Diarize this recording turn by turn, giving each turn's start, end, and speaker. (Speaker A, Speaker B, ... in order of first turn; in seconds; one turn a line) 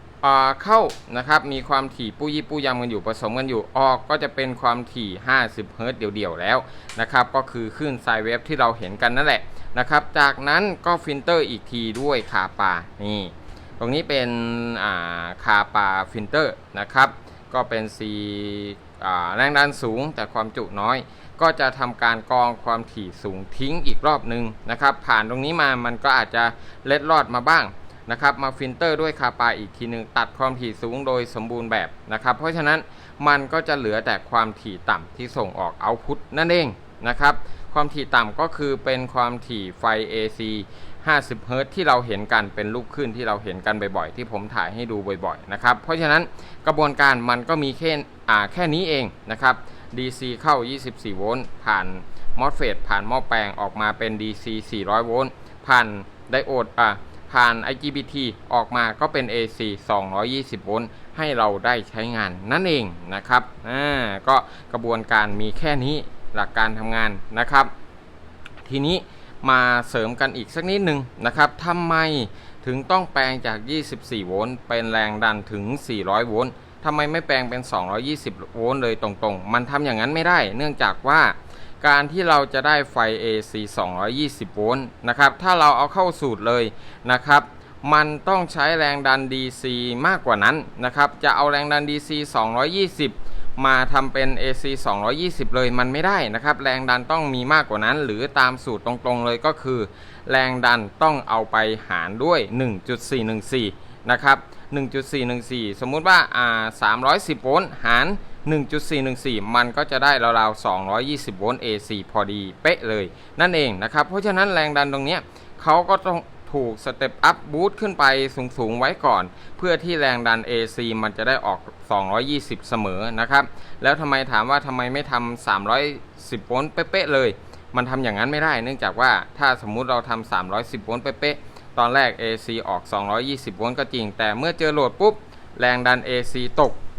Speaker A: 0.2-67.7
Speaker A: 68.6-136.8